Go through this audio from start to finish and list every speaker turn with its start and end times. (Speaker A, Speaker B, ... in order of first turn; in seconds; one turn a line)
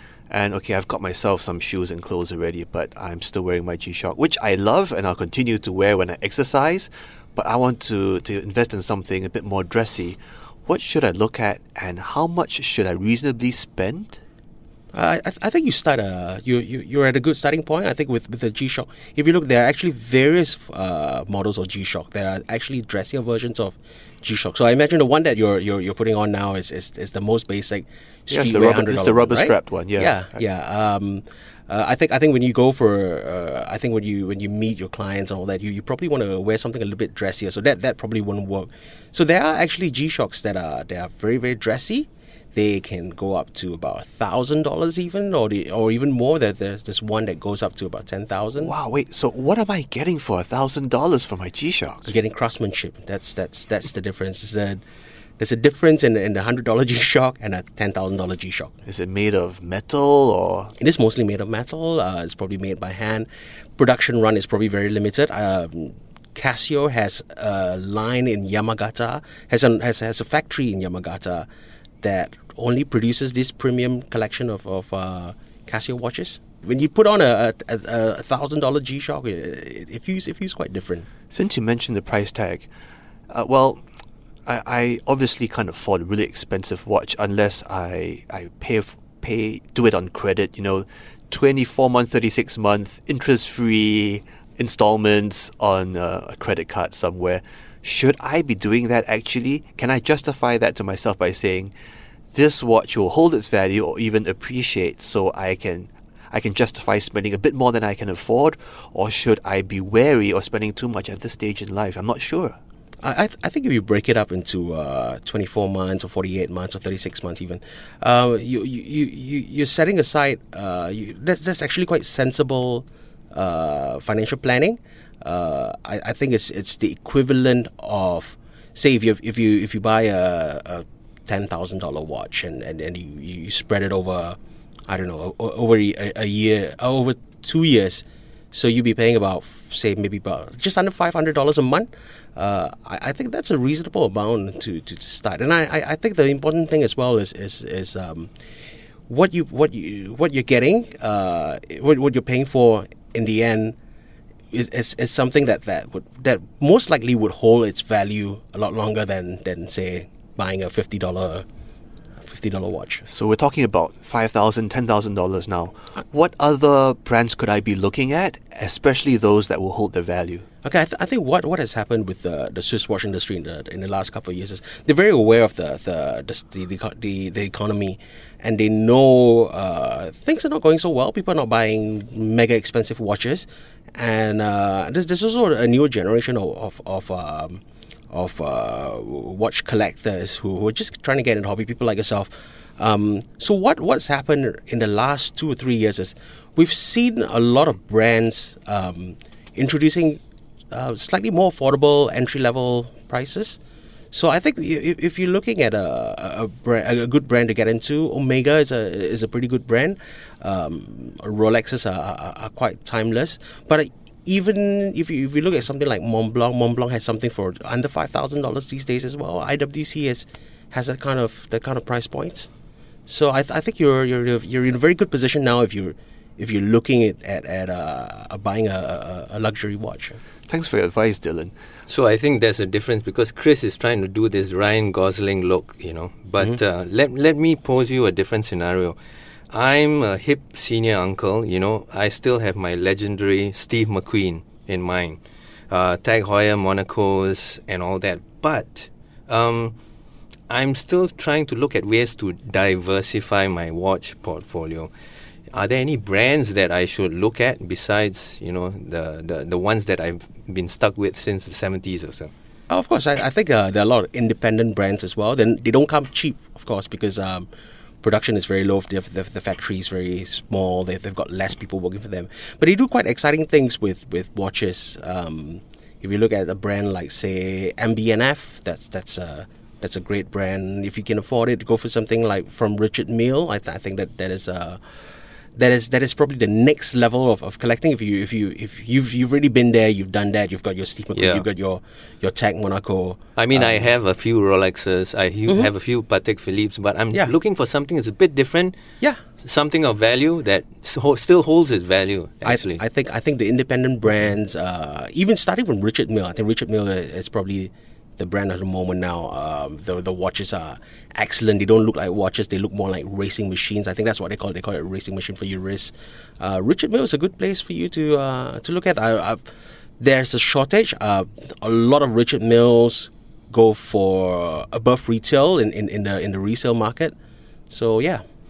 Speaker A: 0.3-14.2
Speaker B: 14.9-48.8
Speaker A: 28.3-30.4
Speaker A: 48.6-52.1
Speaker B: 52.0-54.8
Speaker B: 55.4-58.7
Speaker A: 58.9-60.7
Speaker B: 60.8-71.5
Speaker B: 72.0-81.1
Speaker A: 81.3-82.7
Speaker A: 83.3-83.8
Speaker A: 84.5-101.7
Speaker A: 102.3-112.6
Speaker B: 113.0-148.3
Speaker B: 149.1-153.8
Speaker B: 154.5-161.5
Speaker B: 162.2-163.1
Speaker A: 163.1-170.4
Speaker B: 170.6-200.2
Speaker B: 200.7-203.6
Speaker B: 204.1-222.5
Speaker B: 223.1-230.2
Speaker A: 230.5-231.5
Speaker C: 231.9-239.0
Speaker C: 239.5-249.8
Speaker C: 250.5-254.9
Speaker C: 255.5-262.3
Speaker B: 262.7-267.5
Speaker B: 268.0-284.8
Speaker B: 285.6-293.9
Speaker C: 291.1-291.4
Speaker C: 293.4-298.8
Speaker C: 299.4-302.8
Speaker B: 302.4-319.4
Speaker B: 320.0-327.1
Speaker B: 327.7-328.2